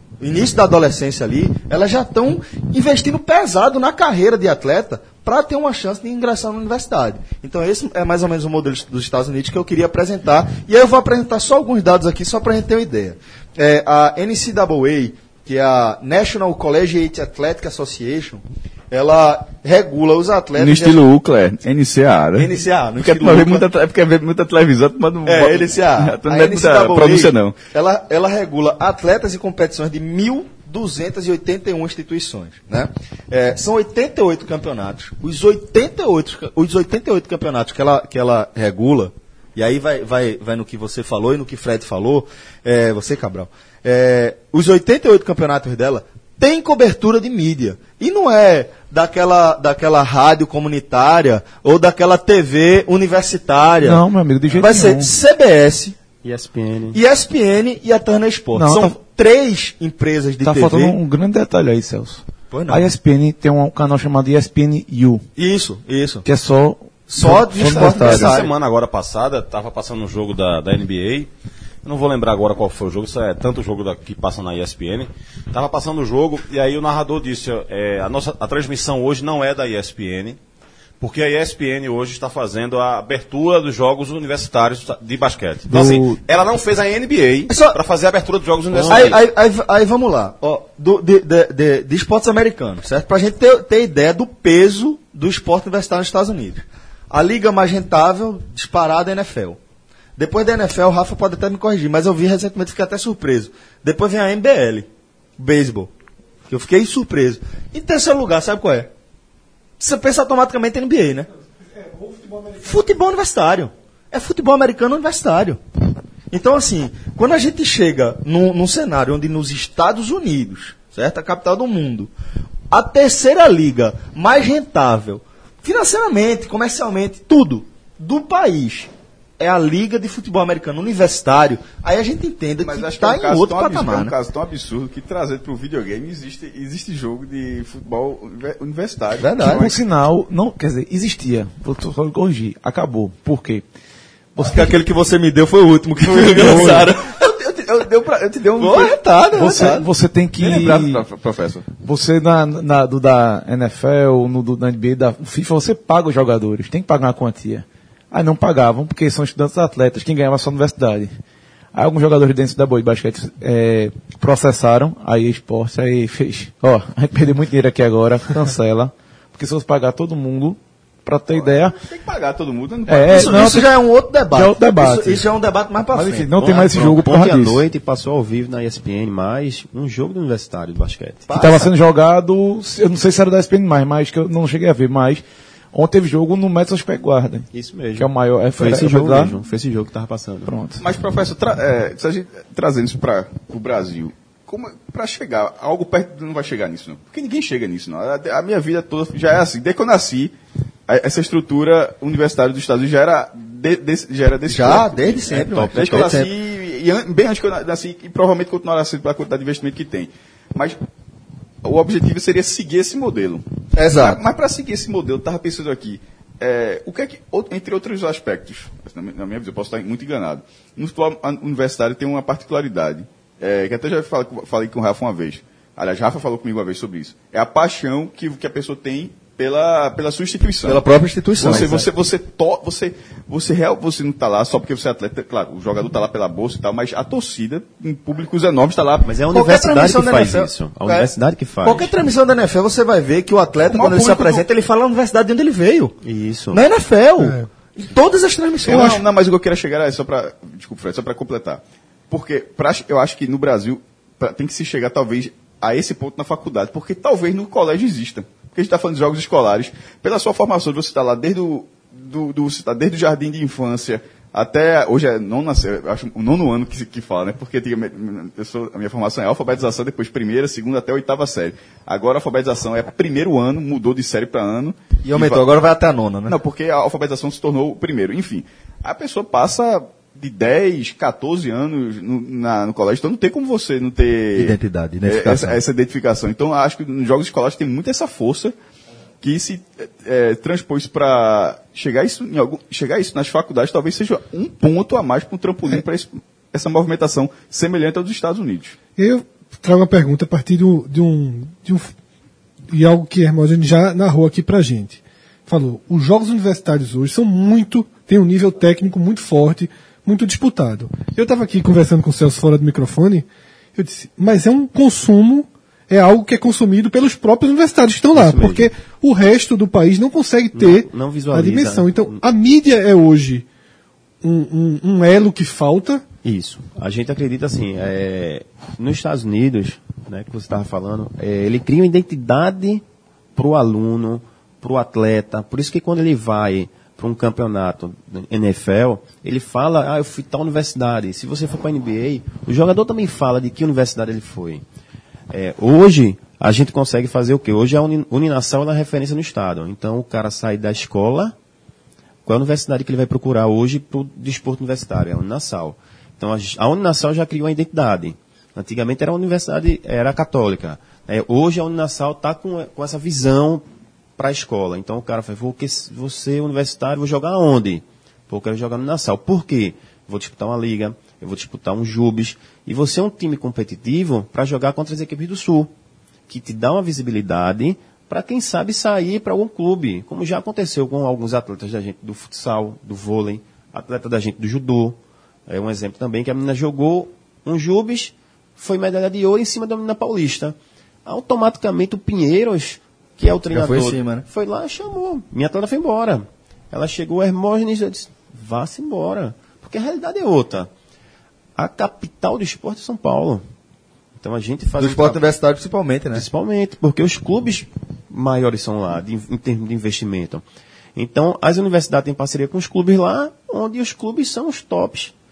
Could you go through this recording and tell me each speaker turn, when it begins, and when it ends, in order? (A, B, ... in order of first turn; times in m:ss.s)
0:00.2-0:21.0 A
0:20.6-0:27.6 B
0:22.4-0:23.7 A
0:25.3-0:56.0 A
0:53.8-0:55.1 C
0:56.2-0:57.0 D
0:56.9-1:01.0 A
0:58.6-0:59.0 C
1:00.4-1:05.2 C
1:02.5-1:02.9 A
1:05.4-1:06.2 A
1:06.2-1:08.4 C
1:07.1-1:08.5 A
1:07.6-1:11.3 E
1:11.8-1:20.4 E
1:21.0-1:29.2 E
1:25.7-1:26.0 C
1:27.5-1:27.8 A
1:28.7-1:29.2 D
1:28.9-1:39.6 A
1:40.2-1:45.9 A
1:46.5-1:48.9 A
1:49.8-1:51.3 A
1:51.8-1:52.8 F
1:52.6-1:55.6 A
1:56.3-2:02.1 A
2:02.7-2:14.1 A
2:12.6-2:19.7 B
2:19.2-2:19.8 A
2:19.4-2:23.7 C
2:24.4-2:24.8 C
2:24.4-2:27.3 A
2:26.1-2:29.0 B
2:26.2-2:26.9 C
2:28.6-2:29.9 A
2:29.4-2:31.0 C
2:30.4-2:31.7 B
2:31.7-2:41.1 C
2:41.7-2:51.8 C
2:51.3-2:53.6 B
2:52.9-2:53.7 C
2:53.1-2:56.6 A
2:54.3-2:55.2 C
2:55.9-2:57.6 C
2:56.4-3:01.3 D
3:01.3-3:01.7 A
3:01.3-3:09.4 C
3:07.5-3:10.5 D
3:10.5-3:10.8 C
3:10.8-3:20.3 B
3:20.9-3:30.8 B
3:24.5-3:26.3 A
3:25.3-3:26.2 D
3:31.6-3:50.8 B
3:33.7-3:34.3 A
3:50.6-3:51.9 A
3:51.4-3:59.2 B
3:59.0-4:01.9 D
3:59.3-4:01.1 A
4:01.6-4:05.9 A
4:03.7-4:04.4 B
4:06.0-4:06.6 D
4:06.5-4:09.0 A
4:07.2-4:07.5 F
4:08.6-4:35.4 B
4:08.7-4:09.0 F
4:35.0-4:36.4 A
4:36.3-4:48.6 B
4:44.4-4:45.6 A
4:49.2-4:58.8 B
4:59.0-5:01.9 F
5:02.7-5:23.5 F
5:18.1-5:18.7 D
5:20.5-5:22.2 D
5:24.2-5:26.0 F
5:26.2-5:32.8 D
5:33.4-5:44.6 D
5:45.3-5:51.4 D
5:52.2-6:03.6 D
6:04.2-6:15.7 D
6:16.3-6:40.7 D
6:33.5-6:34.2 A
6:41.6-6:43.4 D
6:44.2-6:45.2 D
6:44.8-6:46.3 A
6:46.1-6:50.4 D
6:51.0-6:55.1 D